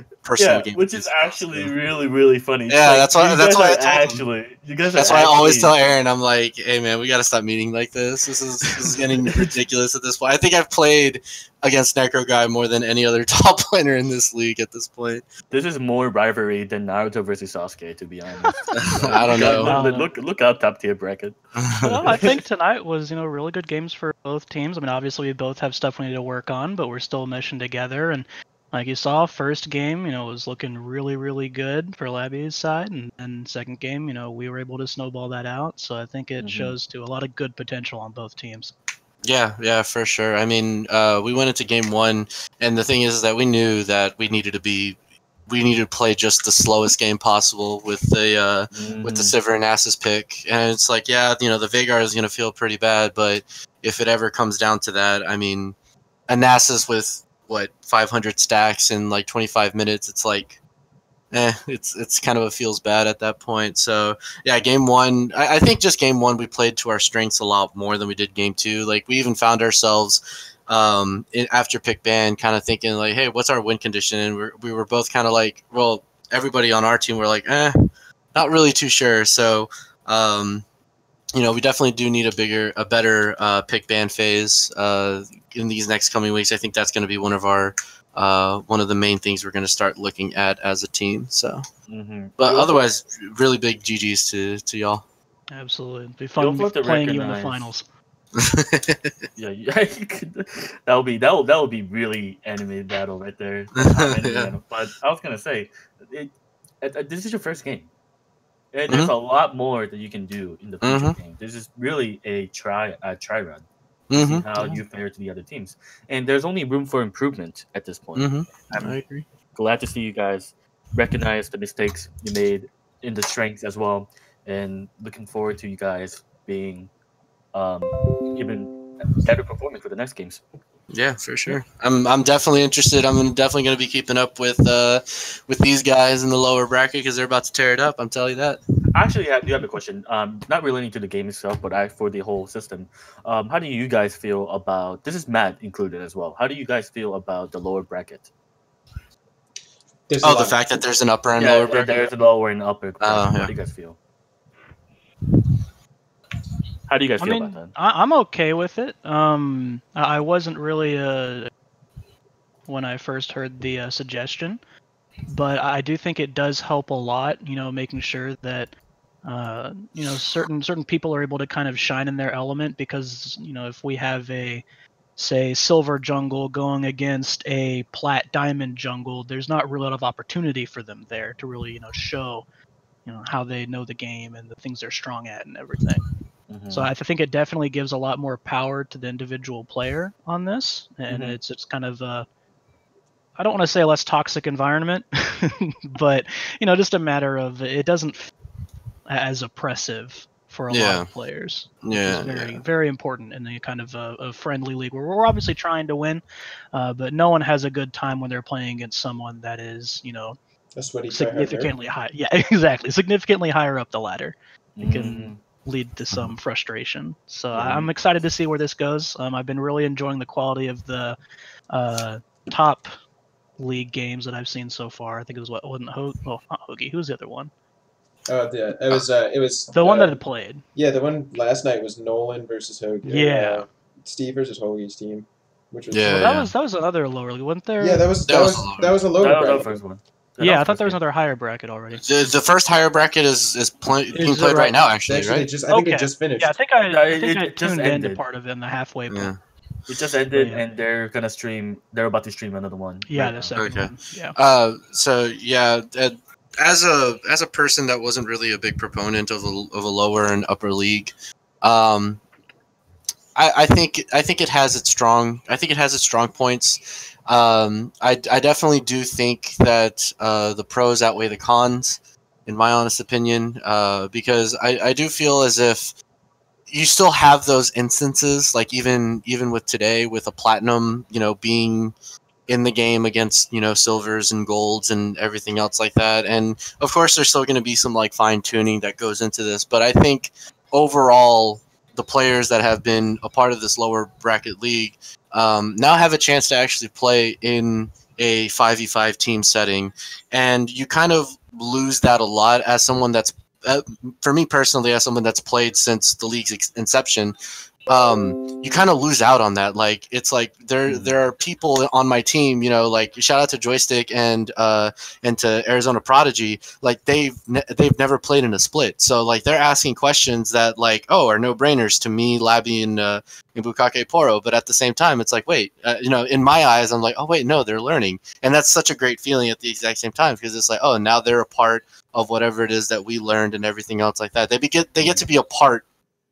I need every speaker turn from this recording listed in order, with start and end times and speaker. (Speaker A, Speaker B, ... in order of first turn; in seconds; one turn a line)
Speaker A: 0.2-1.7
Speaker B: 0.3-5.8
Speaker A: 2.7-4.2
Speaker A: 4.9-15.2
Speaker B: 8.9-9.5
Speaker B: 15.5-21.4
Speaker A: 18.7-19.8
Speaker C: 19.4-20.1
Speaker A: 21.6-21.9
Speaker C: 21.8-38.7
Speaker B: 22.0-22.3
Speaker B: 36.4-36.7
Speaker A: 39.2-55.8
Speaker B: 48.7-49.3
Speaker A: 56.3-60.6
Speaker A: 61.3-80.7
Speaker A: 81.3-91.7
Speaker B: 91.9-92.8
Speaker A: 92.4-95.0
Speaker C: 95.5-97.8
Speaker B: 96.4-97.7
Speaker A: 98.4-99.2
Speaker B: 99.4-107.9
Speaker A: 103.7-104.5
Speaker B: 108.7-119.0
Speaker A: 110.8-111.2
Speaker A: 114.1-114.8
Speaker A: 118.2-119.3
Speaker B: 119.5-126.9
Speaker B: 127.5-130.4
Speaker A: 130.9-138.6
Speaker B: 138.9-148.3
Speaker D: 150.1-150.6
Speaker A: 150.2-152.1
Speaker B: 151.4-154.0
Speaker A: 153.0-153.5
Speaker B: 156.9-157.7
Speaker C: 157.2-161.5
Speaker C: 162.7-164.6
Speaker C: 165.3-168.7
Speaker C: 169.2-174.6
Speaker C: 175.2-182.5
Speaker C: 183.1-186.0
Speaker B: 186.5-186.9
Speaker C: 186.7-192.3
Speaker B: 191.1-191.4
Speaker C: 193.4-198.3
Speaker C: 199.1-210.4
Speaker A: 200.7-201.1
Speaker A: 201.8-202.6
Speaker D: 210.8-211.7
Speaker C: 211.1-221.2
Speaker B: 214.8-215.4
Speaker B: 217.6-217.9
Speaker C: 221.7-222.9
Speaker C: 223.6-227.5
Speaker D: 228.3-230.1
Speaker C: 229.7-230.6
Speaker D: 230.7-236.3
Speaker C: 233.0-233.7
Speaker A: 235.9-236.5
Speaker C: 236.1-238.1
Speaker D: 237.8-239.8
Speaker A: 238.3-239.0
Speaker B: 239.2-241.0
Speaker C: 240.4-242.1
Speaker A: 241.9-245.5
Speaker C: 244.1-244.7
Speaker D: 245.1-246.6
Speaker C: 245.7-249.3
Speaker B: 246.9-248.2
Speaker A: 249.1-249.4
Speaker B: 249.9-253.6
Speaker C: 250.3-250.6
Speaker C: 253.1-254.4
Speaker A: 253.6-262.2
Speaker A: 263.4-275.9
Speaker A: 276.7-281.9
Speaker A: 282.5-307.4
Speaker A: 307.9-335.8
Speaker B: 310.9-311.1